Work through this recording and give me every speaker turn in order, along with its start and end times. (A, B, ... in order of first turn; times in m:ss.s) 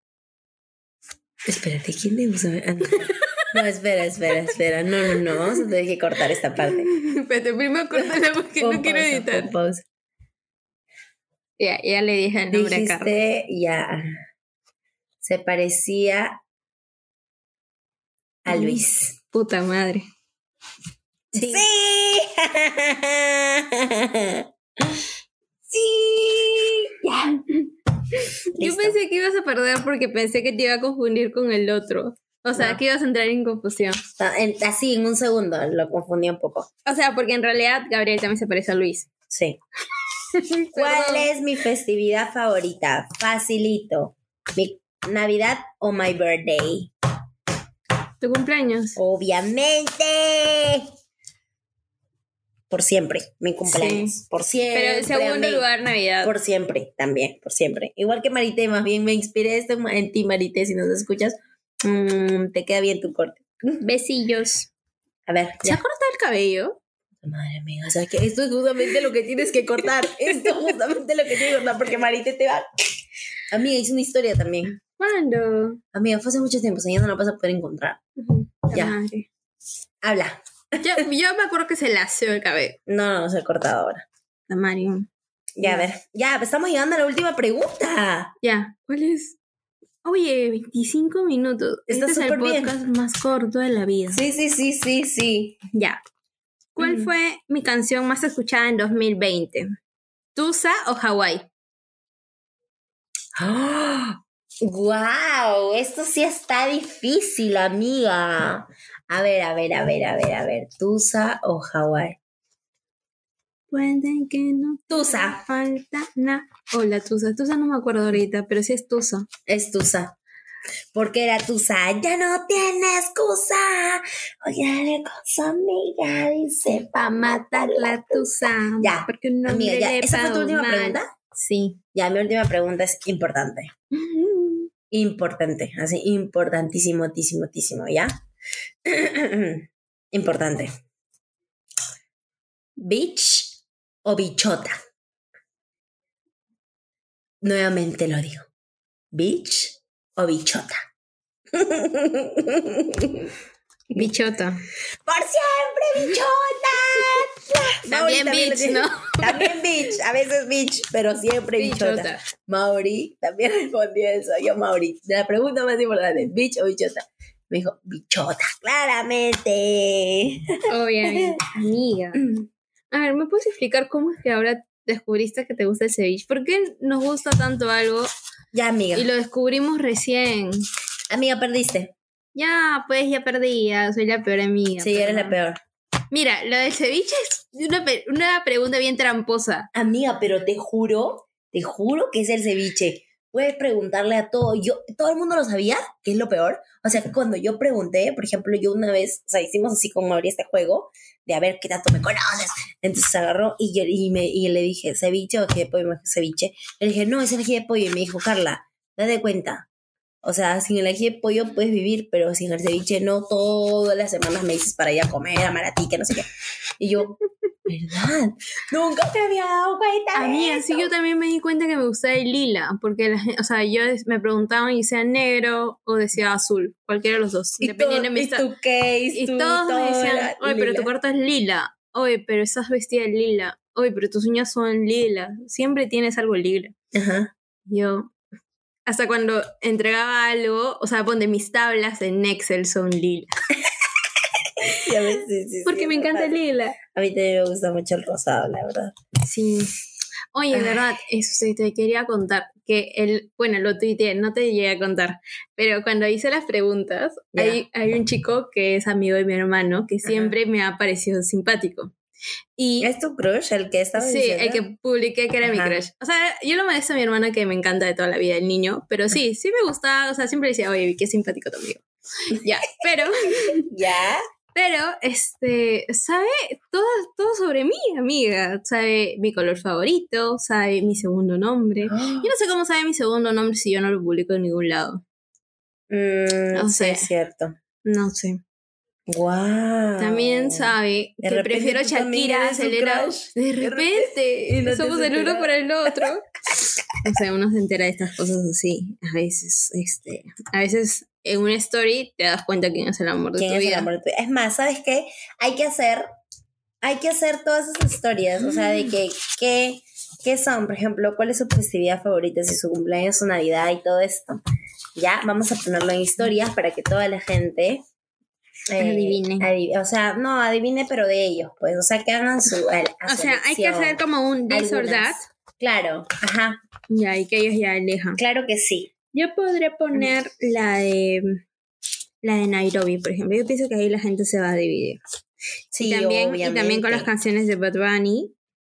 0:01.4-0:06.9 A
0:03.1-0:03.5 B
0:06.7-0:09.5 B
0:07.9-0:09.8 A
0:11.6-0:13.1 B
0:12.5-0:14.0 A
0:15.2-0:16.4 A
0:18.4-0:19.2 A
0:18.5-0:20.0 B
0:21.3-0:21.6 B
0:21.3-0:25.0 A
0:25.7-0:27.6 A
0:28.5-0:29.0 A
0:28.6-0:34.0 B
0:32.5-0:32.8 A
0:34.2-0:36.7 A
0:36.8-0:39.1 B
0:39.3-0:39.6 A
0:40.3-0:41.3 B
0:40.7-0:46.9 A
0:48.2-0:49.0 B
0:49.0-0:50.9 A
0:52.7-0:55.6 A
0:53.6-0:54.1 B
0:54.7-0:56.3 B
0:56.2-1:03.8 A
1:03.8-1:04.7 B
1:05.3-1:05.8 A
1:05.6-1:06.8 B
1:07.2-1:12.7 A
1:10.0-1:10.6 B
1:13.5-1:14.8 A
1:15.0-1:15.8 B
1:15.9-1:18.0 A
1:18.2-1:19.3 B
1:18.7-1:19.0 A
1:20.0-1:21.0 A
1:20.8-1:22.8 B
1:22.9-1:24.0 A
1:24.5-1:25.1 B
1:25.6-1:28.3 A
1:28.4-1:29.4 B
1:30.0-1:34.2 B
1:31.9-1:32.7 A
1:34.1-1:35.6 A
1:35.7-1:36.0 B
1:36.8-1:39.7 B
1:36.8-1:37.1 A
1:40.3-1:41.5 B
1:43.4-1:52.2 A
1:53.7-1:59.3 B
1:54.9-1:55.4 A
1:59.5-2:00.2 A
2:00.9-2:11.1 A
2:07.5-2:11.8 B
2:11.9-2:13.7 A
2:13.9-2:14.7 B
2:14.9-2:18.1 A
2:18.8-2:20.7 A
2:22.8-2:24.8 A
2:27.4-2:28.5 A
2:29.1-2:30.8 A
2:31.5-2:33.3 A
2:33.9-2:34.6 B
2:35.0-2:51.4 A
2:37.9-2:39.5 B
2:41.6-2:42.2 B
2:50.7-2:52.2 B
2:52.2-2:52.5 A
2:52.9-2:58.1 B
2:58.5-2:59.1 A
2:58.9-3:00.6 B
3:01.1-3:01.9 A
3:02.3-3:05.3 B
3:04.8-3:05.6 A
3:06.1-3:09.7 B
3:09.7-3:29.6 A
3:30.2-3:36.3 A
3:36.8-3:40.9 A
3:40.1-3:48.4 B
3:47.6-3:50.9 A
3:49.1-3:56.7 B
3:56.9-3:57.3 A
3:57.7-3:58.1 B
3:58.9-4:03.3 B
4:04.6-4:04.9 B
4:04.7-4:08.9 A
4:05.6-4:06.8 B
4:09.2-4:09.7 B
4:10.3-4:21.9 B
4:10.5-4:10.9 A
4:17.3-4:17.6 A
4:20.0-4:20.3 A
4:22.6-4:22.9 B
4:22.8-4:24.6 A
4:24.0-4:33.7 B
4:25.4-4:25.8 A
4:32.8-4:34.2 A
4:34.5-4:45.0 B
4:41.9-4:42.3 A
4:45.9-4:47.5 A
4:46.5-4:47.1 B
4:47.8-4:48.4 B
4:49.1-4:56.7 A
4:50.0-4:56.2 B
4:57.0-5:03.9 B
5:03.4-5:06.1 A
5:06.8-5:14.4 A
5:15.0-5:17.8 A
5:18.7-5:26.6 A
5:18.8-5:19.5 B
5:23.1-5:25.2 B
5:26.9-5:28.2 B
5:28.2-5:28.9 A
5:29.1-5:31.4 B
5:32.2-5:35.0 B
5:35.7-5:37.1 A
5:35.8-5:38.3 B